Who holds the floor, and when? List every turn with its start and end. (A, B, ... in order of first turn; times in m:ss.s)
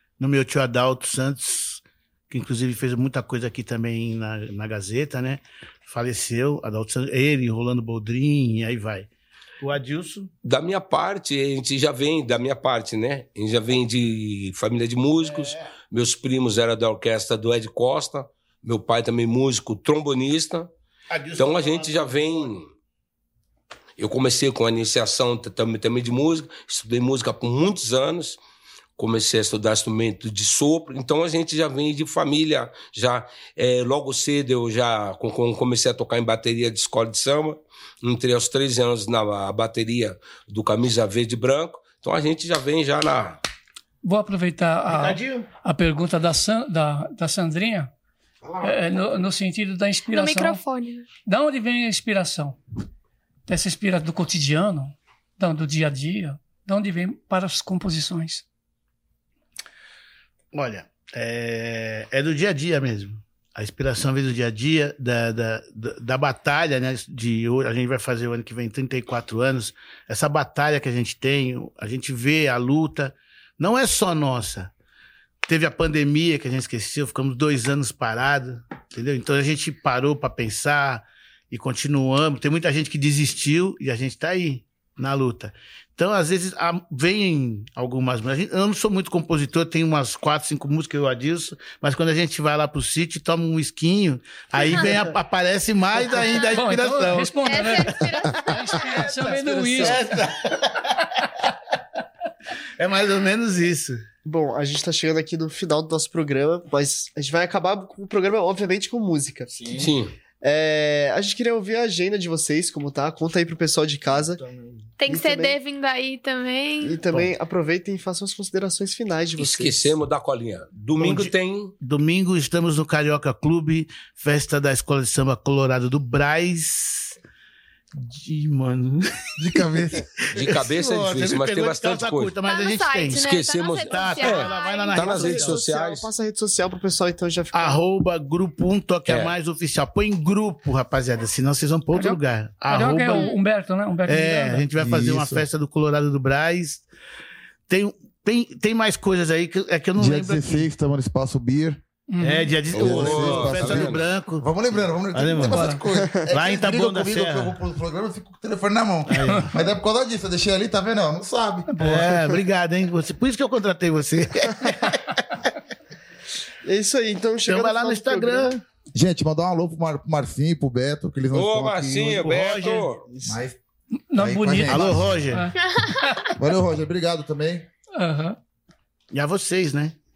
0:00.2-0:09.1 A
0:09.6-0:10.3 A
0:10.4-0:20.7 B
0:15.2-0:15.6 A
0:21.1-0:22.5 A
0:21.4-0:22.7 B
0:24.0-0:28.4 B
0:29.0-0:43.4 B
0:44.0-0:47.9 C
0:44.9-0:45.5 A
0:48.6-0:50.6 C
0:50.1-0:51.1 D
0:51.2-0:52.6 C
0:53.5-0:58.4 C
1:00.5-1:14.7 A
1:15.4-1:37.4 A
1:36.5-1:40.0 C
1:37.4-1:39.4 D
1:38.7-1:41.0 A
1:42.8-1:44.0 A
1:44.2-1:55.6 E
1:49.7-1:50.1 B
1:55.0-1:57.0 D
1:56.8-2:00.0 E
1:59.4-2:01.7 B
2:01.0-2:07.2 A
2:08.0-2:09.1 A
2:09.4-2:10.1 F
2:10.4-2:12.4 B
2:10.4-2:13.2 A
2:12.4-2:15.7 D
2:13.2-2:16.1 B
2:13.9-2:15.6 A
2:15.1-2:17.8 E
2:17.5-2:23.3 A
2:19.1-2:19.3 B
2:21.9-2:24.7 C
2:24.1-2:26.8 A
2:24.8-2:25.5 F
2:27.7-2:30.7 A
2:30.0-2:31.8 F
2:32.1-2:32.5 C
2:32.2-2:34.5 A
2:32.7-2:42.1 F
2:32.7-2:34.0 B
2:35.1-2:35.8 A
2:35.5-2:35.8 C
2:36.0-2:36.3 E
2:36.3-2:37.6 A
2:39.1-2:39.6 A
2:41.8-2:45.2 A
2:46.6-2:48.5 E
2:47.5-2:48.6 A
2:48.9-2:52.5 F
2:51.3-2:53.1 B
2:52.1-2:52.9 A
2:53.1-2:53.4 E
2:53.3-2:53.6 F
2:54.1-2:56.3 C
2:54.2-2:55.3 F
2:54.7-2:55.5 A
2:55.6-2:56.3 D
2:56.4-2:57.7 F
2:58.0-2:58.4 C
2:59.1-3:00.0 A